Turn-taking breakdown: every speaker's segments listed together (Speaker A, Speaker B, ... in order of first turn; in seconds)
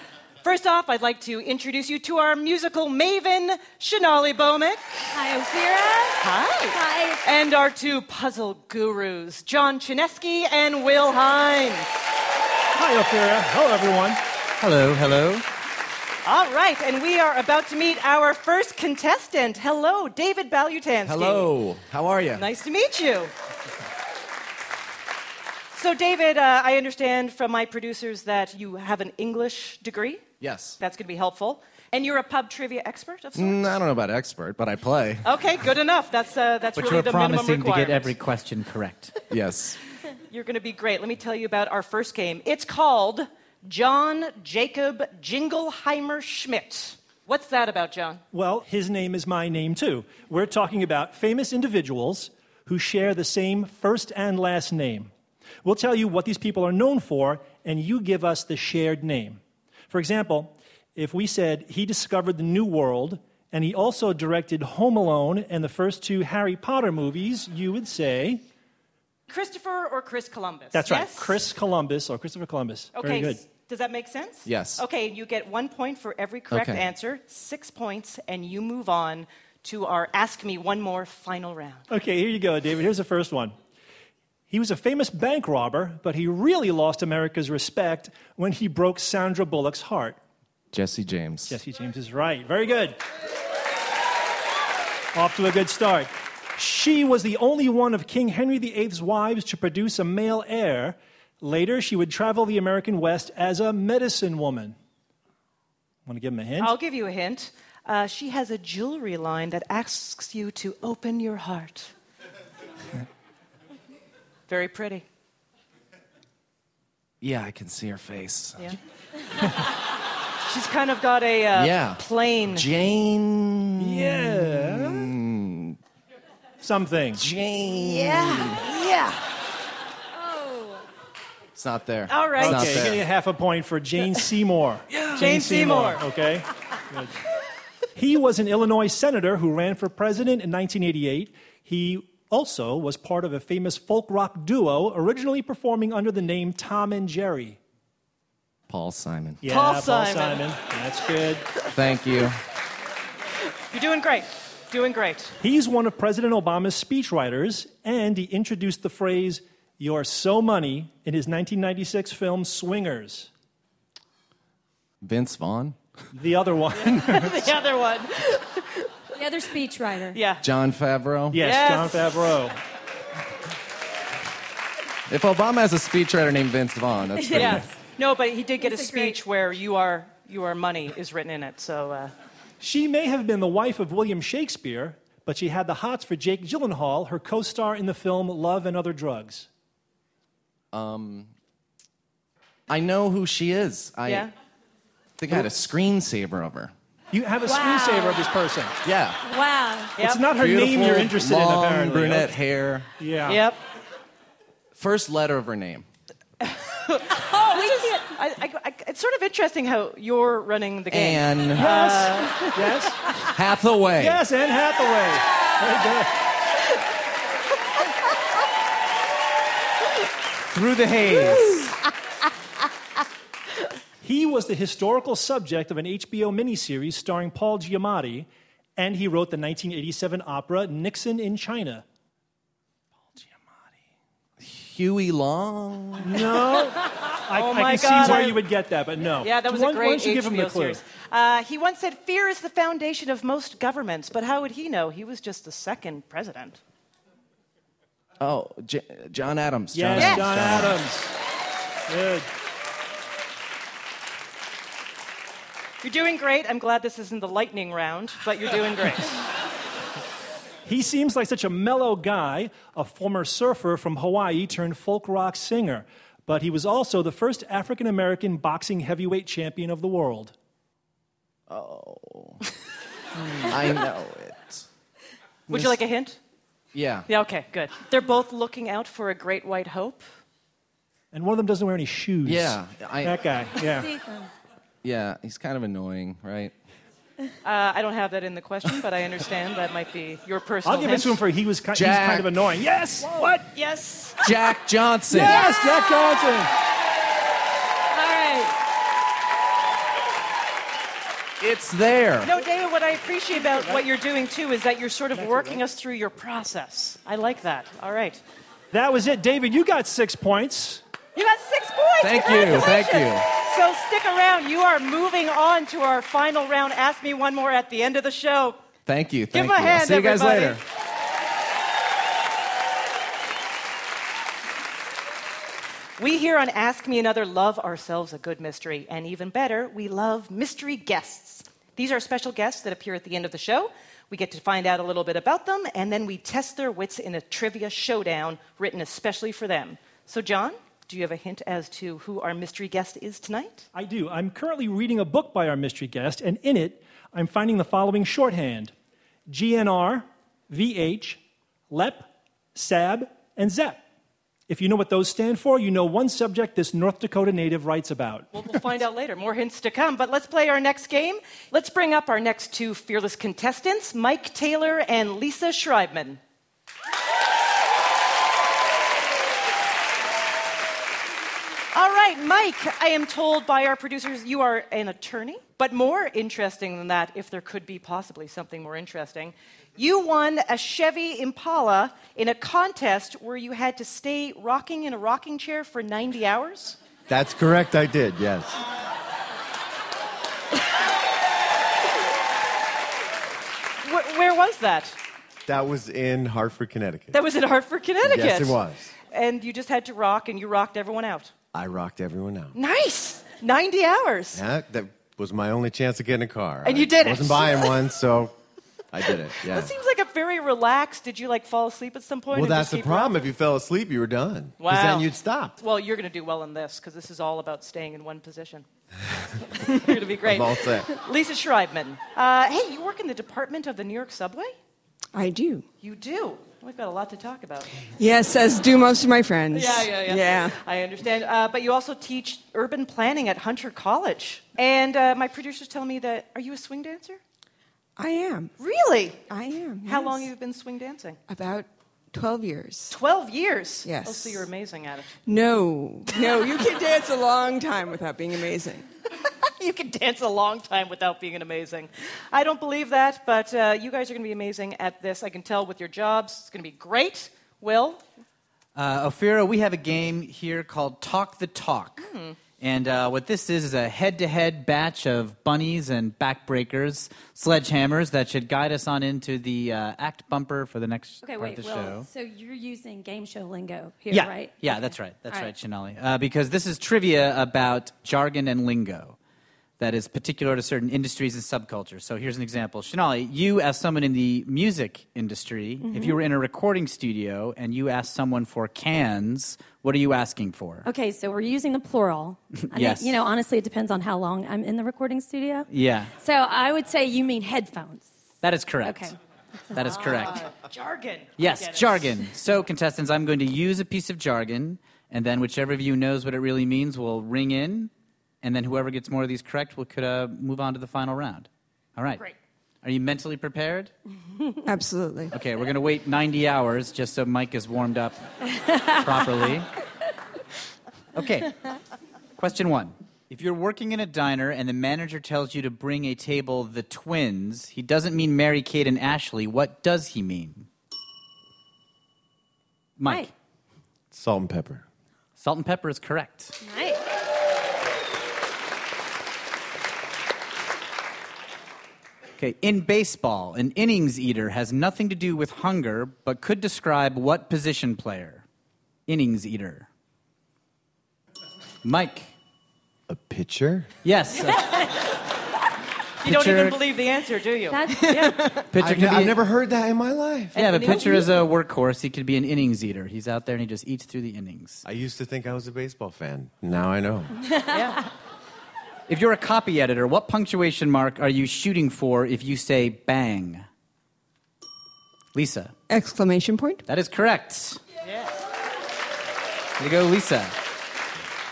Speaker A: 0.4-5.1, 6.2-12.0, 16.2-21.5, 22.4-23.3, 25.7-30.2, 30.8-33.8, 35.2-38.1, 40.3-48.2, 69.3-71.4, 73.0-81.8, 106.6-111.9, 114.5-115.0, 120.5-122.7, 128.0-129.0, 132.1-132.8, 135.2-136.0, 149.5-150.4, 153.7-155.3, 166.7-168.5, 170.1-170.4, 171.4-172.1, 177.3-182.1, 194.1-194.3, 200.0-200.2, 203.3-203.6, 206.4-212.6, 237.3-238.4, 239.2-246.6, 250.0-250.2, 255.8-259.1, 275.5-276.2, 277.1-280.0, 287.4-291.2, 293.5-294.2, 302.2-308.2, 311.2-318.6, 319.3-320.6, 326.0-343.7, 358.3-366.2, 371.7-386.8, 393.8-395.0, 397.1-401.3, 402.5-404.4, 406.6-407.8, 409.4-413.3, 414.6-418.6, 419.6-424.6, 425.8-427.7, 429.5-437.2, 438.6-439.2, 439.9-441.2, 442.9-445.1, 449.6-458.0, 462.0-462.4, 499.8-502.2, 554.5-554.8, 556.2-558.4, 560.5-561.3, 567.7-568.0, 578.0-578.4
Speaker B: 5.1-7.2, 127.8-128.9, 130.2-130.8, 169.1-170.2, 177.2-177.7, 178.6-179.2, 197.4-198.3, 199.2-200.0, 207.3-208.2, 283.7-284.3, 295.1-295.8, 297.9-298.5, 471.2-475.5, 485.8-486.2, 490.8-498.1, 498.8-499.2, 536.6-537.0, 557.7-558.6, 567.5-567.9
Speaker C: 12.7-14.2, 48.3-55.1, 55.6-68.4, 70.7-73.4, 81.9-83.5, 84.5-90.2, 91.5-93.0, 95.2-104.8, 106.1-106.8, 123.8-125.1, 126.6-127.3, 132.4-137.2, 137.9-147.6, 149.4-151.5, 155.4-163.3, 166.1-167.5, 171.3-172.6, 182.6-189.5, 197.1-198.8, 200.0-202.4, 203.0-203.4, 211.6-213.0, 214.0-216.1, 224.0-231.8, 236.0-240.8, 249.7-251.1, 251.9-252.3, 260.7-270.3, 281.1-283.9, 290.6-293.5, 295.1-296.5, 305.1-305.6, 308.7-310.8, 343.8-348.7, 349.3-353.8, 354.5-358.6
Speaker D: 14.6-15.4, 36.8-39.1, 220.5-221.7, 458.8-472.1, 474.1-479.2, 479.8-490.9, 492.7-493.2, 495.7-496.1, 498.4-499.1, 499.7-500.5, 501.4-507.9, 508.4-512.2, 512.8-513.9, 515.3-518.3, 518.9-519.7, 521.1-521.5, 522.4-530.7, 533.0-533.3, 535.4-536.5, 542.4-548.4, 549.1-549.9, 551.8-552.3, 554.0-554.9, 556.2-556.8, 558.7-559.4, 560.5-564.9, 569.1-573.7, 575.3-575.7, 576.9-577.8, 579.8-580.5
Speaker E: 21.1-22.4, 30.4-30.8, 33.4-35.3, 39.3-39.8, 74.5-74.8, 76.5-76.8, 90.7-91.6, 117.2-118.7, 121.5-125.8, 127.2-128.6, 131.6-133.1, 134.9-135.2, 148.7-149.4, 151.7-152.4, 165.0-165.8, 170.4-171.4, 175.1-177.7, 190.7-191.3, 192.7-194.3, 195.2-196.7, 198.8-199.2, 200.3-202.9, 204.8-205.8, 210.9-211.7, 213.3-214.2, 234.4-236.5, 248.2-250.8, 271.5-272.4, 273.1-274.7, 275.5-275.8, 276.7-277.1, 282.2-283.3, 284.8-286.5, 291.7-292.4, 294.2-295.4, 301.4-302.4, 312.0-313.3, 318.9-320.6
Speaker F: 387.1-388.6, 395.5-397.2, 398.0-398.9, 401.5-402.6, 404.3-408.3, 408.9-409.7, 412.3-415.6, 419.8-421.0, 534.1-534.9, 553.1-553.9, 558.8-560.6, 564.9-567.4
Speaker G: 425.1-425.7, 428.0-430.6, 438.0-438.5, 439.3-440.3, 441.3-443.0, 443.8-444.5, 445.3-448.9, 514.7-515.3, 575.9-576.9